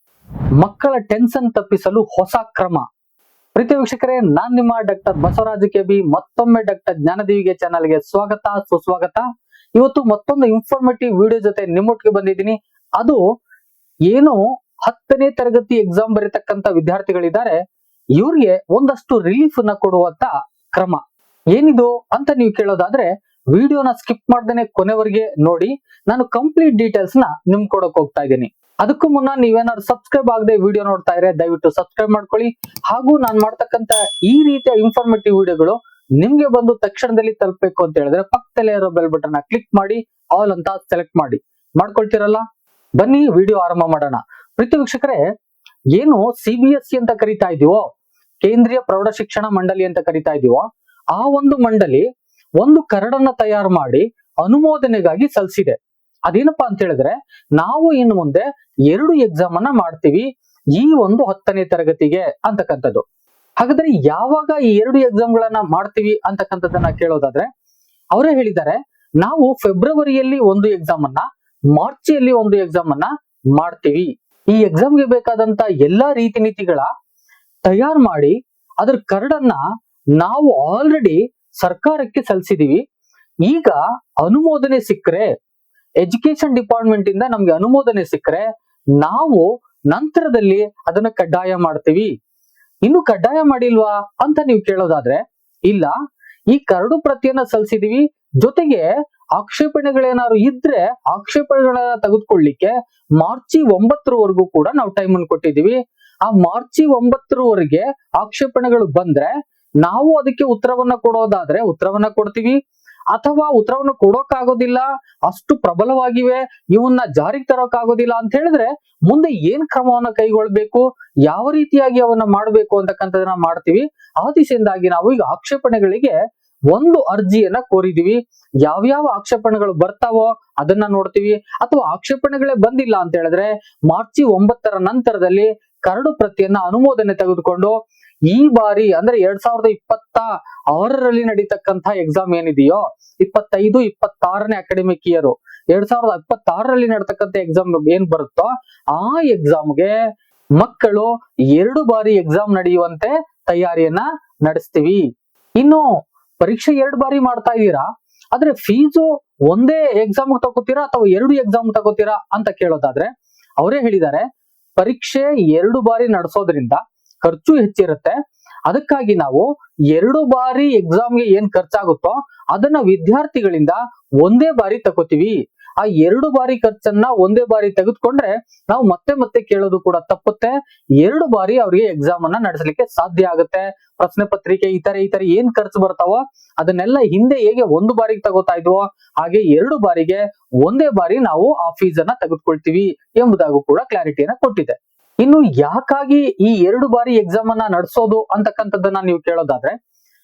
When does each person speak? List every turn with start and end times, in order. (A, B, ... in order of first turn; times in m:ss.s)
0:00.6-0:02.8 A
0:03.6-0:09.2 A
0:09.8-0:13.2 A
0:14.1-0:17.6 A
0:18.2-0:21.0 A
0:21.6-0:42.4 A
0:43.0-0:45.2 A
0:46.0-0:47.9 A
0:48.4-0:52.0 A
0:52.6-0:55.8 A
0:56.3-1:03.0 A
1:03.6-1:07.5 A
1:08.1-1:11.2 A
1:11.8-1:16.9 A
1:17.6-1:19.6 A
1:20.2-1:22.8 A
1:23.5-1:25.3 A
1:26.0-1:28.4 A
1:29.0-1:32.1 A
1:32.8-1:35.9 A
1:36.5-1:38.8 A
1:39.4-1:49.3 A
1:49.8-1:52.6 A
1:53.1-2:06.1 A
2:06.7-2:17.8 A
2:18.3-2:29.9 A
2:30.6-2:35.0 A
2:35.6-2:43.1 A
2:43.6-2:44.2 A
2:44.8-2:48.2 A
2:48.7-3:19.8 A